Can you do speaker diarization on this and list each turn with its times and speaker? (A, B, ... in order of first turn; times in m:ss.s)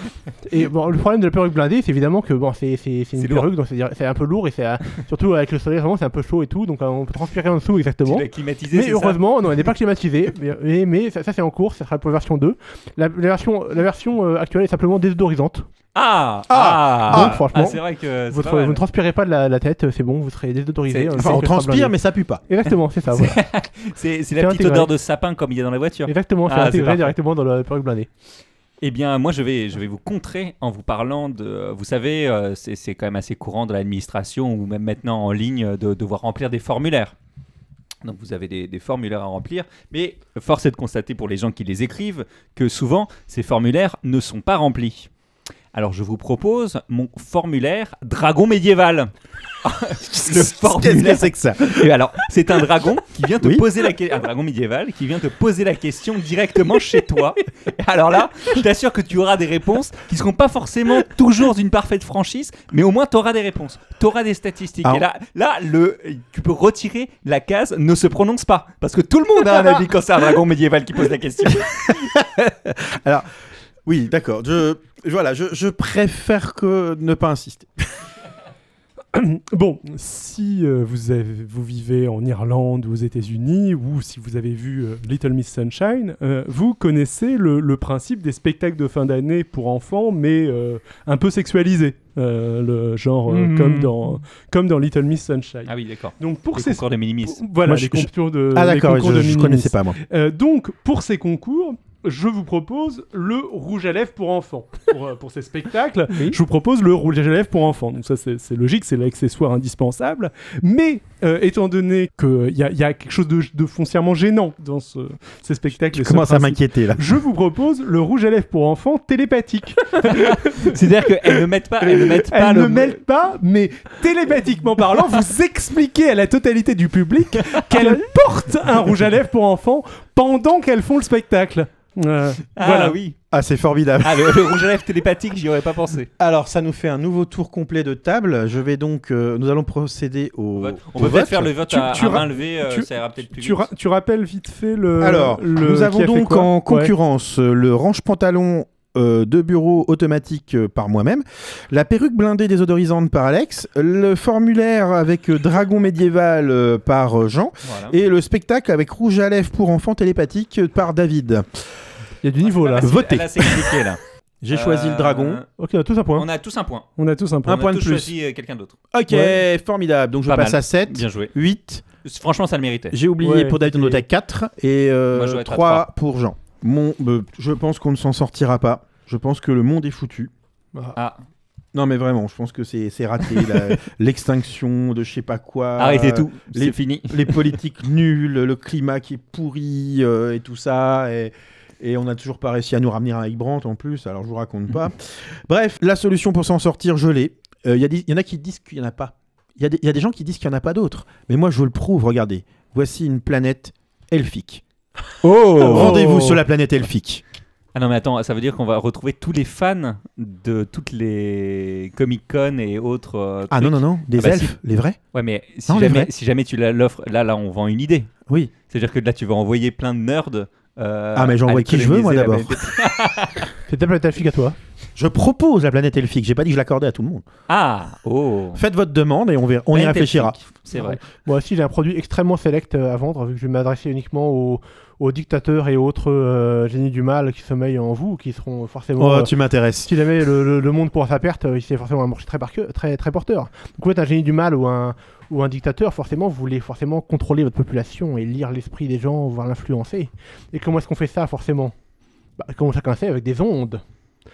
0:00.4-0:15.6 A
0:03.2-0:03.5 B
0:08.0-0:09.2 B
0:15.9-0:18.8 B
0:16.5-0:17.4 C
0:17.1-0:21.9 A
0:20.9-0:21.4 B
0:21.1-0:22.4 C
0:22.5-0:23.4 A
0:23.1-0:27.1 B
0:24.4-0:24.9 A
0:26.1-0:28.1 A
0:28.8-0:37.1 B
0:38.0-0:45.1 B
0:45.7-0:49.1 B
0:49.6-1:12.2 B
0:50.0-0:51.9 C
0:53.4-0:53.7 C
1:09.5-1:09.8 C
1:11.6-1:13.3 C
1:13.8-1:18.1 C
1:19.1-2:00.8 D
1:33.3-1:33.9 A
1:35.6-1:37.4 B
1:37.6-1:40.0 C
1:55.9-1:57.2 C
2:00.0-2:03.0 B
2:01.9-2:13.0 D
2:12.6-2:13.2 B
2:13.3-2:14.6 C
2:14.0-2:16.1 B
2:16.2-2:21.5 C
2:20.6-2:23.7 B
2:21.7-2:26.9 D
2:25.0-2:41.4 C
2:37.6-2:37.9 B
2:42.2-2:42.9 A
2:42.4-2:45.5 B
2:42.8-2:43.8 C
2:44.4-2:45.4 C
2:45.6-2:46.2 A
2:46.2-2:46.9 B
2:47.0-2:47.7 D
2:47.4-2:48.8 B
2:47.5-2:48.1 C
2:48.9-2:51.8 C
2:50.3-2:51.3 B
2:52.0-2:53.0 B
2:52.9-3:00.3 C
2:53.2-2:54.0 A
2:55.1-2:55.8 B
3:01.7-3:24.6 C
3:05.8-3:07.5 B
3:25.5-3:26.0 B
3:25.5-3:26.4 D
3:25.6-3:27.2 C
3:27.7-3:34.5 B
3:33.5-3:35.0 C
3:35.1-3:38.1 B
3:35.7-3:36.1 C
3:38.7-3:43.5 B
3:41.1-3:42.6 C
3:43.7-3:44.6 A
3:45.0-3:47.2 C
3:47.5-3:48.6 B
3:48.5-3:50.4 C
3:49.7-3:51.0 B
3:50.7-3:59.3 A
3:59.0-3:59.9 C
3:59.8-4:11.7 A
4:12.4-4:13.8 A